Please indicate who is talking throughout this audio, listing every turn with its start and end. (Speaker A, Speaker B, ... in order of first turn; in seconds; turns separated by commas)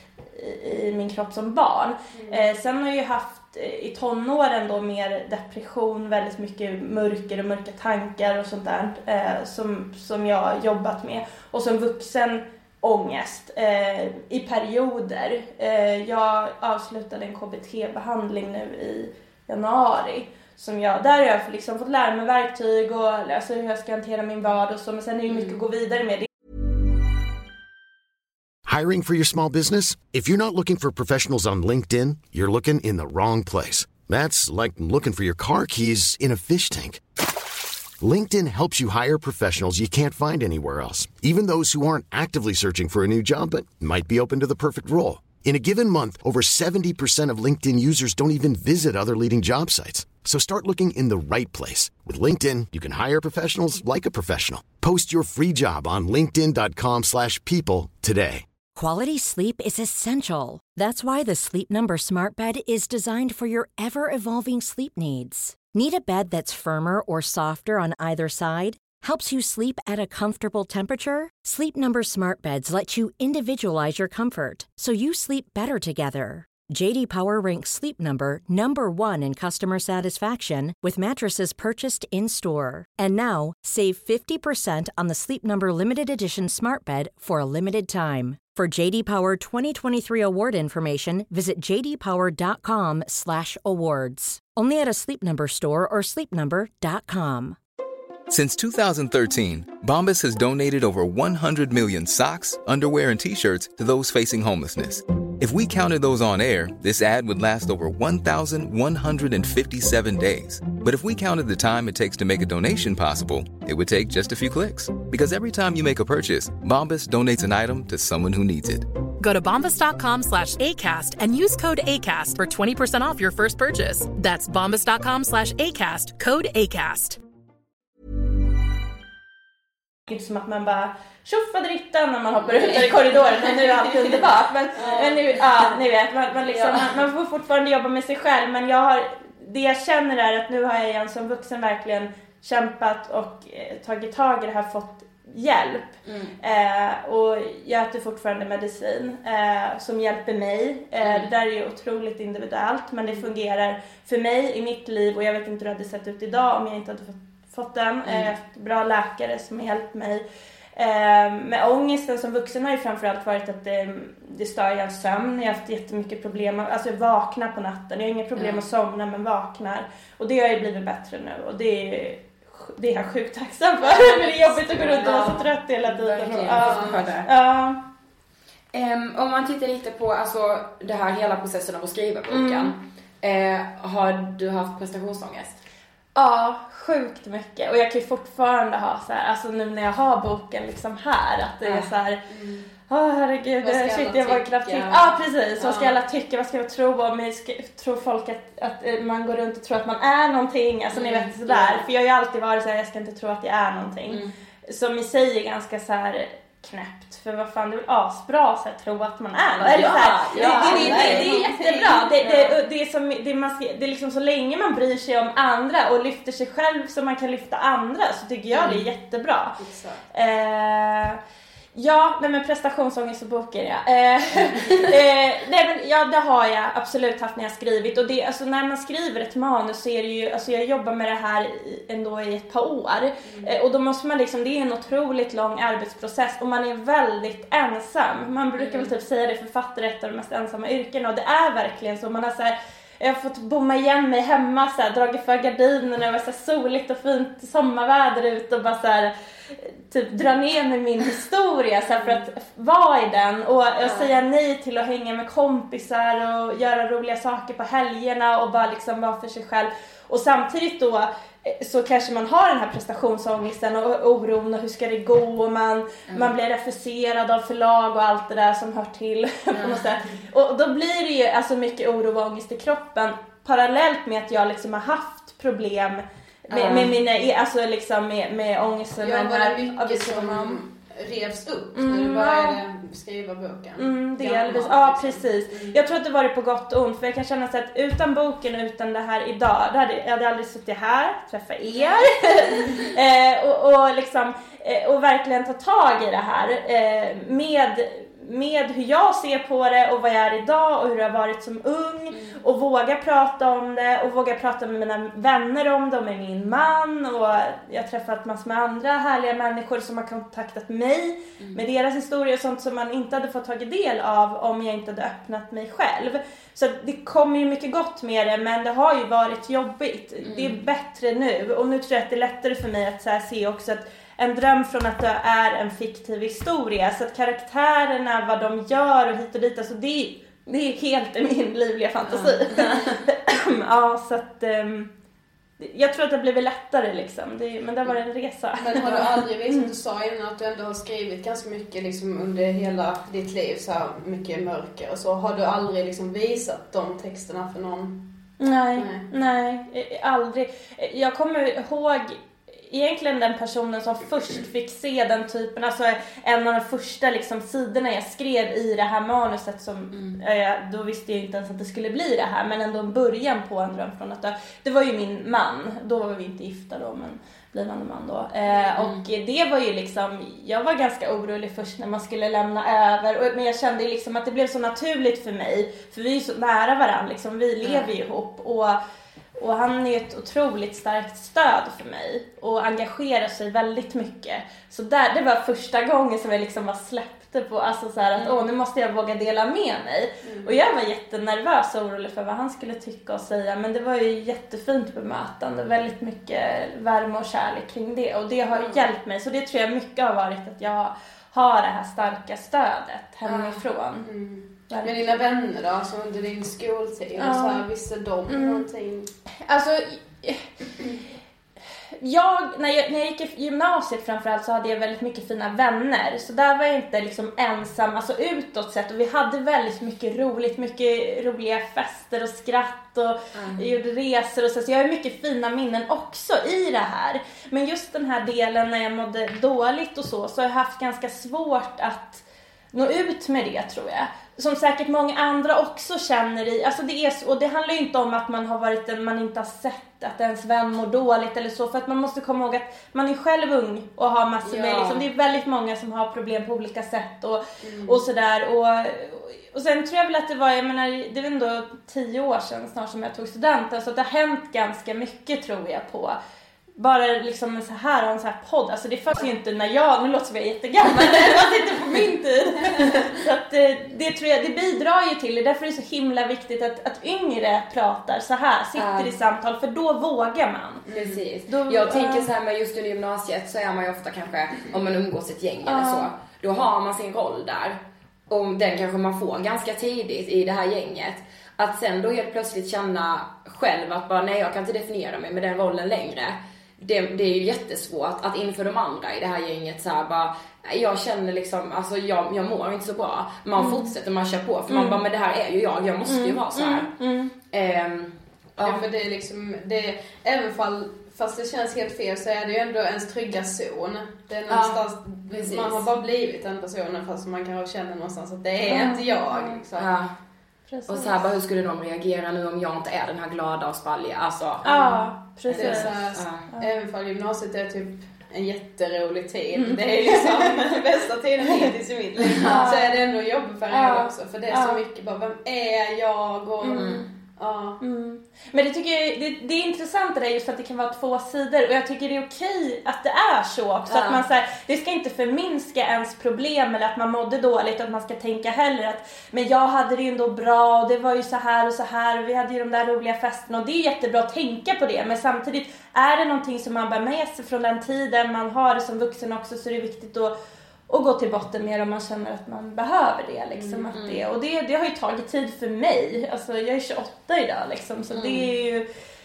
Speaker A: 0.3-26.3, Speaker B: 2.1-2.4, Speaker C: 28.6-37.0, Speaker C: 38.0-58.5, Speaker D: 58.7-97.6, Speaker E: 98.3-118.9, Speaker F: 119.2-127.2, Speaker A: 130.1-160.2, Speaker B: 134.8-135.2, Speaker G: 136.5-137.0, Speaker G: 146.0-146.3, Speaker G: 151.0-151.3, Speaker A: 160.8-177.8, Speaker G: 168.3-168.6, Speaker G: 174.7-177.3, Speaker B: 174.8-175.2, Speaker B: 176.6-177.0, Speaker G: 178.7-185.6, Speaker A: 182.3-182.7, Speaker A: 186.1-192.2, Speaker B: 192.3-192.7, Speaker A: 192.9-219.6, Speaker B: 193.6-195.9, Speaker G: 201.0-201.3, Speaker G: 209.6-211.4, Speaker B: 210.3-212.1, Speaker G: 212.2-212.5, Speaker B: 219.6-220.0, Speaker A: 220.1-221.2, Speaker A: 221.7-280.6, Speaker G: 238.6-238.9, Speaker G: 269.5-269.9, Speaker G: 276.5-276.9, Speaker B: 279.0-285.8, Speaker A: 281.7-282.6, Speaker A: 283.8-334.9, Speaker G: 302.1-302.4, Speaker G: 320.2-320.6, Speaker A: 335.6-339.7, Speaker B: 338.6-348.2, Speaker A: 348.4-378.8, Speaker B: 348.7-349.1, Speaker G: 359.9-360.2, Speaker G: 368.8-369.0, Speaker G: 377.6-377.9, Speaker A: 379.4-404.1, Speaker B: 390.2-390.5, Speaker G: 398.5-398.8, Speaker G: 403.2-403.6, Speaker B: 404.0-409.1, Speaker A: 404.7-405.2, Speaker A: 407.1-407.6, Speaker A: 408.3-408.6, Speaker A: 409.4-410.5, Speaker A: 412.0-456.2, Speaker G: 423.3-423.6, Speaker G: 444.4-445.0, Speaker B: 447.6-448.0, Speaker A: 456.8-470.9, Speaker G: 468.8-469.1, Speaker B: 470.9-471.2, Speaker G: 470.9-496.9, Speaker A: 471.5-472.3, Speaker A: 475.6-476.1, Speaker A: 493.6-493.9, Speaker A: 494.7-495.0, Speaker A: 496.1-497.3, Speaker G: 497.5-498.8, Speaker B: 498.6-509.9, Speaker G: 504.5-505.9, Speaker A: 508.7-509.6, Speaker G: 509.7-510.1, Speaker A: 510.7-511.1, Speaker G: 510.9-514.7, Speaker A: 514.6-516.7, Speaker B: 514.6-527.8, Speaker G: 515.5-516.5, Speaker A: 519.7-520.4, Speaker G: 522.3-522.6, Speaker A: 522.4-523.0, Speaker A: 523.7-524.8, Speaker A: 526.6-527.1, Speaker G: 526.7-527.0, Speaker A: 527.8-550.3, Speaker G: 533.9-534.2, Speaker A: 550.9-558.9, Speaker B: 553.5-553.9, Speaker G: 553.9-554.2, Speaker G: 558.1-558.5